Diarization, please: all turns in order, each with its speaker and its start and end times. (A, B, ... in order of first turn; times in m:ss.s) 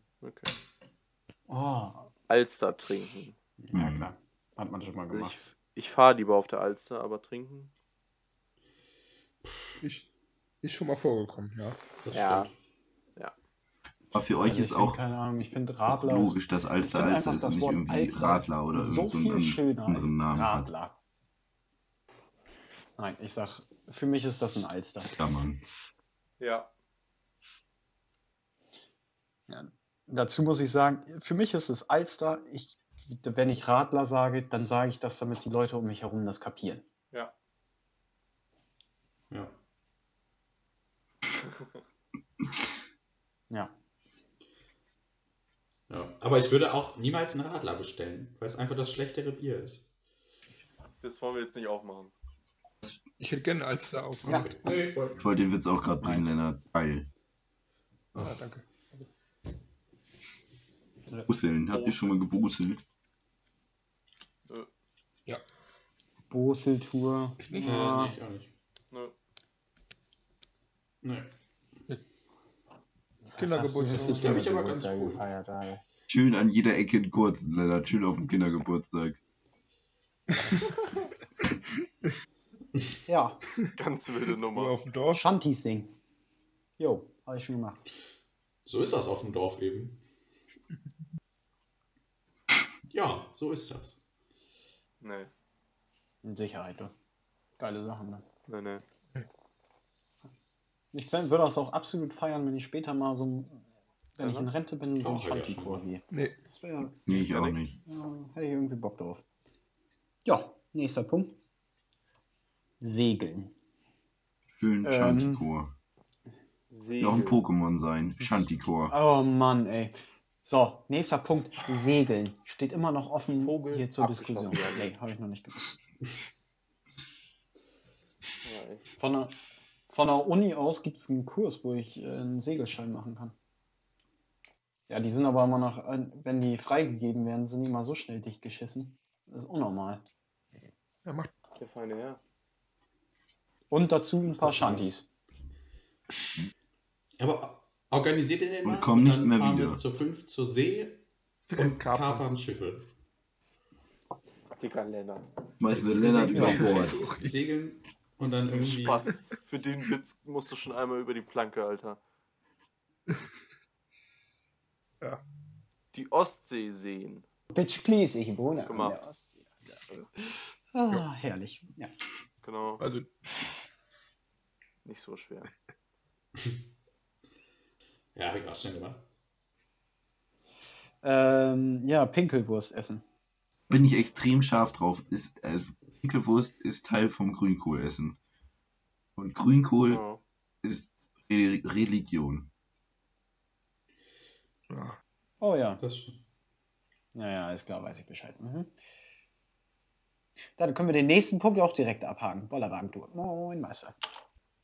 0:00.2-0:00.5 A
0:01.5-0:02.1 B
0:02.3-0:03.3 A
0:03.6-0:05.4 B
0:03.7-0:04.1 C
0:05.1-0:07.7 A
0:09.4-0:09.8 D
0:09.8-0:10.1 E
0:10.6-0:11.8 E
0:12.0-0:12.5 D
0:12.1-0:12.5 A
0:14.1-0:15.0 C
0:14.4-0:21.0 B
0:15.9-0:20.7 C
0:23.0-0:25.2 B
0:25.1-0:25.6 C
0:26.4-0:26.7 A
0:29.5-0:36.8 B
0:45.9-0:49.8 D
0:51.0-0:52.1 A
0:53.2-0:54.3 E
0:54.2-0:55.3 D
0:55.2-0:57.1 C
0:58.1-0:58.6 E
1:01.3-1:02.8 C
1:01.7-1:02.1 A
1:06.3-1:08.1 B
1:07.4-1:07.8 E
1:07.6-1:08.5 D
1:11.0-1:11.3 D
1:13.3-1:15.8 B
1:13.4-1:14.4 E
1:13.9-1:15.2 D
1:16.1-1:19.2 C
1:20.3-1:20.7 E
1:23.1-1:23.4 B
1:23.7-1:24.8 A
1:24.5-1:25.2 E
1:25.1-1:25.9 B
1:26.8-1:27.8 B
1:28.6-1:30.0 D
1:32.9-1:34.0 D
1:35.0-1:35.3 A
1:36.2-1:36.9 B
1:37.6-1:38.2 B
1:38.5-1:38.8 A
1:40.9-1:43.6 B
1:44.2-1:47.1 B
1:44.2-1:44.5 A
1:45.0-1:45.9 D
1:46.1-1:46.4 E
1:47.0-1:47.7 C
1:47.8-1:49.2 B
1:50.2-1:51.4 B
1:52.8-1:53.5 B
1:54.6-1:55.7 C
1:54.8-1:55.4 B
1:56.7-1:57.4 A
1:57.0-1:59.0 C
1:58.9-2:05.8 B
2:03.4-2:04.9 A
2:08.4-2:08.8 A
2:09.0-2:09.3 B
2:09.9-2:13.3 B
2:14.9-2:20.0 B
2:21.0-2:21.3 E
2:21.6-2:22.2 A
2:23.7-2:25.0 B
2:24.3-2:24.9 A
2:27.2-2:32.9 D
2:28.6-2:29.8 C
2:31.5-2:32.2 E
2:34.6-2:35.3 A
2:35.6-2:37.0 C
2:35.9-2:37.4 E
2:36.3-2:39.1 D
2:36.3-2:36.7 B
2:38.5-2:42.0 A
2:45.9-2:47.2 A
2:47.5-2:51.9 B
2:48.7-2:49.0 A
2:52.4-2:52.8 A
2:52.8-2:53.1 E
2:54.8-2:55.5 A
2:58.1-2:59.0 D
3:01.0-3:03.0 B
3:03.7-3:08.2 C
3:09.2-3:10.0 C
3:09.9-3:10.2 A
3:10.6-3:12.5 C
3:14.7-3:15.0 E
3:15.4-3:15.8 B
3:15.8-3:16.2 D
3:17.1-3:18.7 B
3:20.6-3:24.0 B